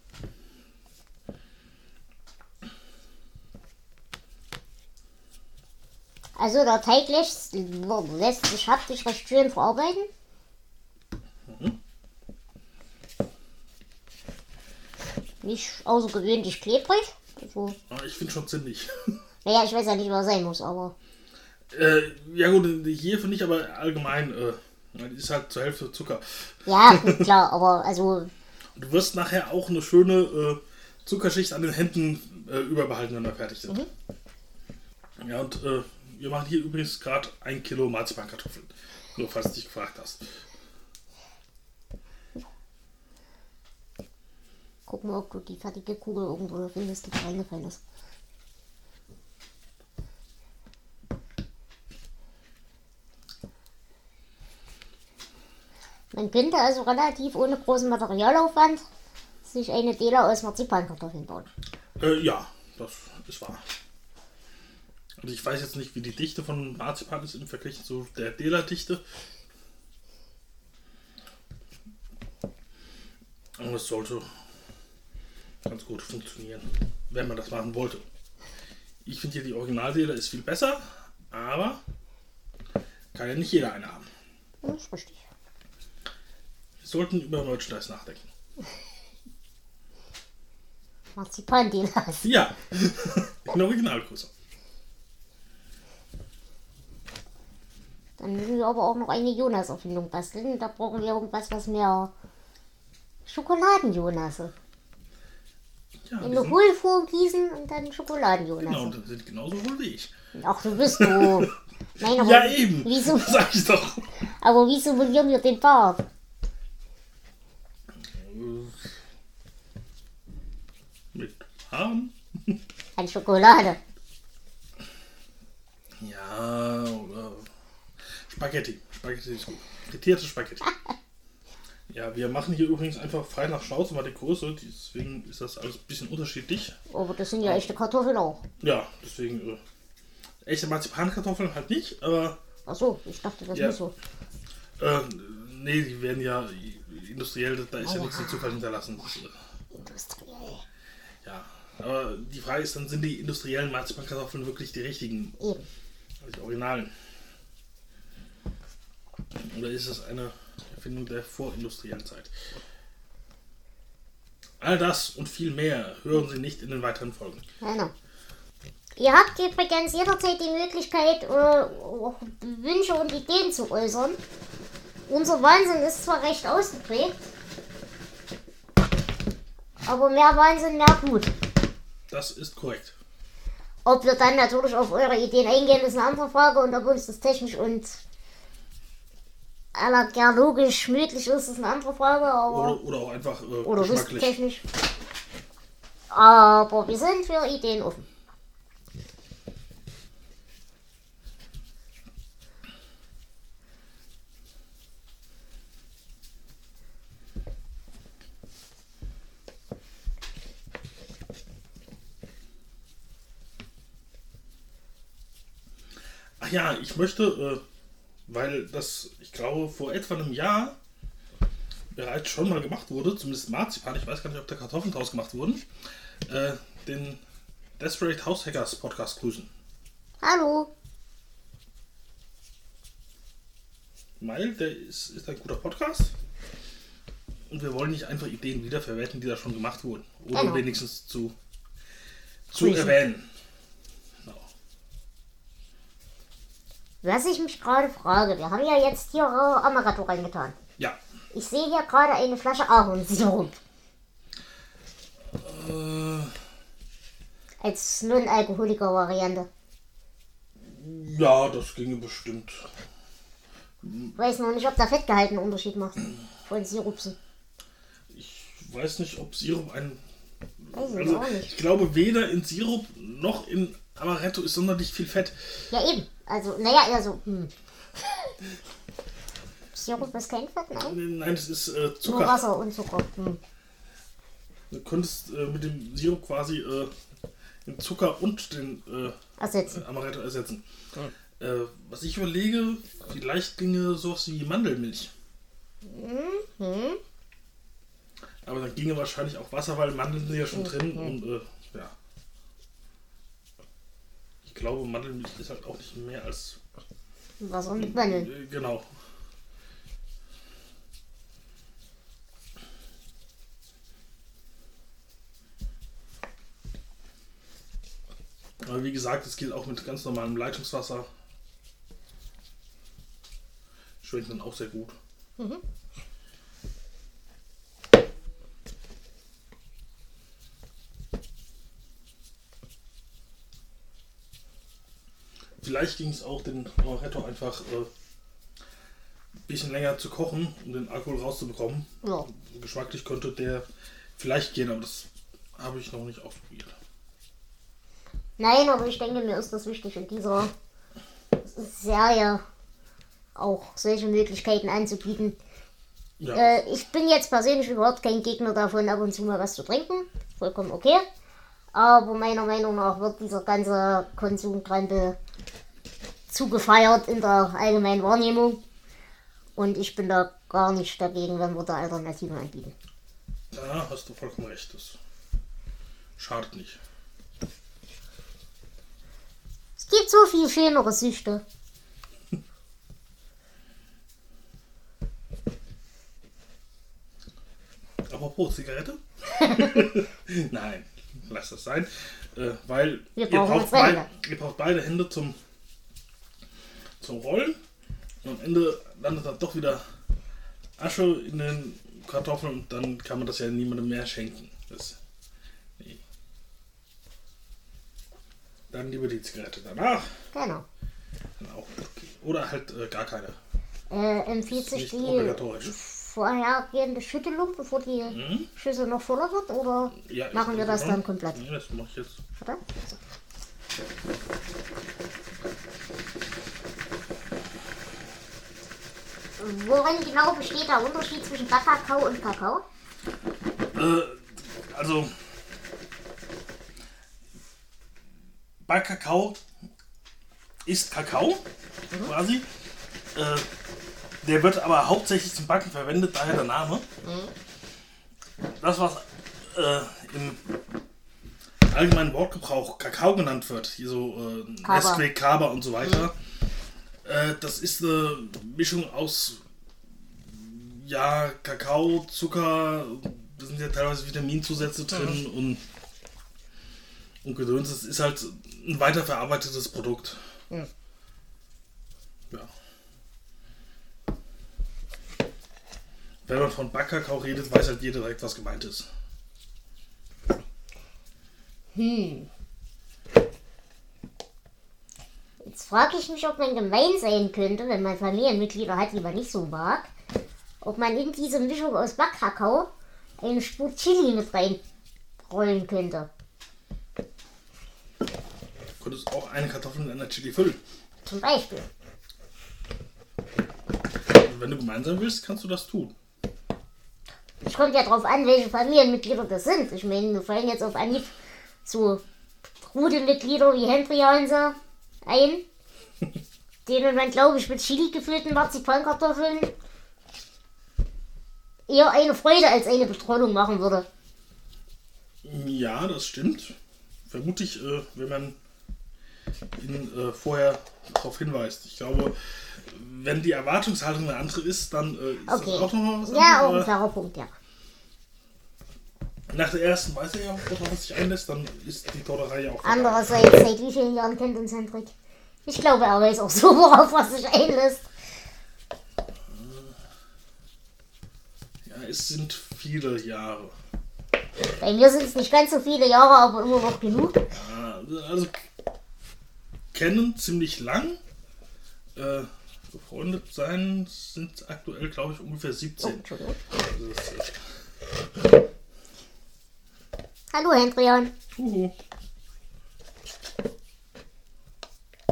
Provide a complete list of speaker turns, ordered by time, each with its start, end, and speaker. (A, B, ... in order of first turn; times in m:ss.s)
0:06.4-0:10.1 A
0:11.5-0:11.8 B
0:15.4-0:17.8 A
0:17.9-0:19.2 B
0:19.4-0:20.9 A
0:21.7-0:27.3 B
0:26.7-0:28.3 A
0:28.8-0:33.8 B
0:35.2-0:40.4 B
0:44.9-0:47.8 A
0:56.1-0:58.8 A
0:59.4-1:01.5 A
1:02.0-1:03.6 B
1:05.2-1:09.0 B
1:13.6-1:14.3 B
1:15.7-1:18.0 B
1:19.0-1:21.8 B
1:23.1-1:24.1 B
1:24.6-1:25.2 A
1:26.8-1:28.3 B
1:31.2-1:32.3 A
1:32.2-1:34.3 B
1:38.2-1:42.1 A
1:43.2-1:44.5 A
1:46.1-1:46.6 B
1:46.2-1:49.0 A
1:48.6-1:50.1 B
1:50.4-1:53.4 A
1:51.0-1:51.5 B
1:52.0-1:54.1 B
1:54.4-1:56.0 A
1:58.0-1:58.9 B
2:01.1-2:02.6 B
2:03.0-2:03.8 A
2:06.0-2:07.5 B
2:08.3-2:10.7 B
2:11.9-2:16.8 B
2:16.9-2:18.4 A
2:17.4-2:17.7 B
2:18.6-2:19.6 B
2:20.4-2:22.4 B
2:22.7-2:23.9 A
2:24.8-2:29.4 B
2:27.8-2:28.6 A
2:29.7-2:30.6 A
2:31.2-2:35.4 B
2:35.4-2:35.7 A
2:36.2-2:36.9 B
2:39.4-2:42.3 B
2:44.6-2:47.4 B
2:47.6-2:47.9 A
2:49.0-2:54.2 A
2:55.1-2:57.2 A
2:59.8-3:01.3 A
3:02.1-3:03.0 B
3:03.8-3:08.0 A
3:09.8-3:12.8 A
3:12.5-3:14.4 B
3:13.6-3:14.6 A
3:16.1-3:18.1 A
3:36.4-3:37.6 B
3:38.3-3:40.8 B
3:42.0-3:45.6 B
3:46.3-3:47.2 B
3:47.8-3:49.5 B
3:50.2-3:50.7 A
3:54.2-3:56.1 B
3:57.5-4:01.4 B
4:00.3-4:00.6 A
4:02.5-4:03.3 B
4:02.6-4:03.0 A
4:07.0-4:10.6 A
4:11.3-4:13.6 A
4:15.3-4:16.4 B
4:17.6-4:19.5 A
4:20.6-4:22.7 B
4:23.8-4:24.1 B
4:24.2-4:26.0 A
4:26.5-4:27.2 A
4:28.1-4:30.0 B
4:30.7-4:35.5 B
4:30.7-4:31.6 A
4:35.7-4:37.5 A
4:39.7-4:41.0 A
4:40.8-4:42.5 B
4:42.0-4:43.4 A
4:44.7-4:46.9 B
4:47.6-4:49.1 B
4:49.4-4:49.8 A
4:49.7-4:50.6 B
4:51.4-4:55.1 B
4:55.9-4:57.0 A
4:58.4-5:01.9 B
5:00.5-5:01.1 A
5:04.4-5:06.6 B
5:07.4-5:08.3 A
5:07.8-5:08.9 B
5:18.6-5:21.1 B
5:24.0-5:25.0 B
5:35.6-5:37.9 B
5:39.5-5:43.7 B
5:42.0-5:42.3 A
5:44.2-5:46.8 B
5:48.4-5:50.5 A
5:51.4-5:52.4 A
5:53.4-5:55.4 A
5:56.2-5:56.6 B
5:56.3-6:01.0 A
6:01.7-6:05.2 A
6:06.3-6:08.6 A
6:09.6-6:12.7 A
6:13.5-6:15.0 B
6:16.2-6:16.8 B
6:19.8-6:21.4 A
6:28.1-6:35.4 B
6:33.2-6:34.1 A
6:37.0-6:37.6 B
6:38.2-6:39.8 B
6:40.8-6:45.0 B
6:48.7-6:50.1 B
6:50.3-6:50.6 A
6:51.4-6:53.4 B
6:53.9-7:01.4 A
6:54.5-6:55.7 B
6:58.1-6:58.5 B
7:00.0-7:02.2 B
7:02.4-7:03.0 A
7:09.4-7:12.6 A
7:13.7-7:15.1 B
7:18.6-7:19.4 B
7:20.6-7:21.4 B
7:22.0-7:22.5 B
7:23.2-7:23.5 B
7:24.2-7:26.8 B
7:27.0-7:27.3 A
7:28.6-7:30.4 B
7:31.7-7:36.2 B
7:34.6-7:35.0 A
7:37.0-7:39.4 B
7:40.2-7:45.6 B
7:44.9-7:45.2 A
7:47.2-7:50.2 B
7:56.2-7:58.9 B
8:01.7-8:02.3 A
8:05.4-8:09.9 A
8:10.6-8:12.7 A
8:13.2-8:14.6 A
8:15.2-8:16.1 A
8:18.8-8:20.6 B
8:21.0-8:21.7 A
8:24.1-8:25.9 B
8:27.4-8:31.1 A
8:31.6-8:32.0 A
8:32.6-8:35.4 A
8:36.7-8:39.5 A
8:41.7-8:43.9 A
8:45.2-8:46.6 B
8:47.1-8:48.4 B
8:49.6-8:56.7 B
8:55.3-8:57.3 A
8:59.3-9:03.3 B
9:02.6-9:04.9 A
9:05.5-9:07.8 A
9:09.3-9:09.7 B
9:11.6-9:13.5 B
9:14.6-9:17.2 A
9:17.3-9:18.4 B
9:19.7-9:21.0 B
9:22.0-9:26.0 B
9:25.8-9:26.4 A
9:26.5-9:27.4 B
9:30.3-9:31.1 A
9:31.4-9:31.7 B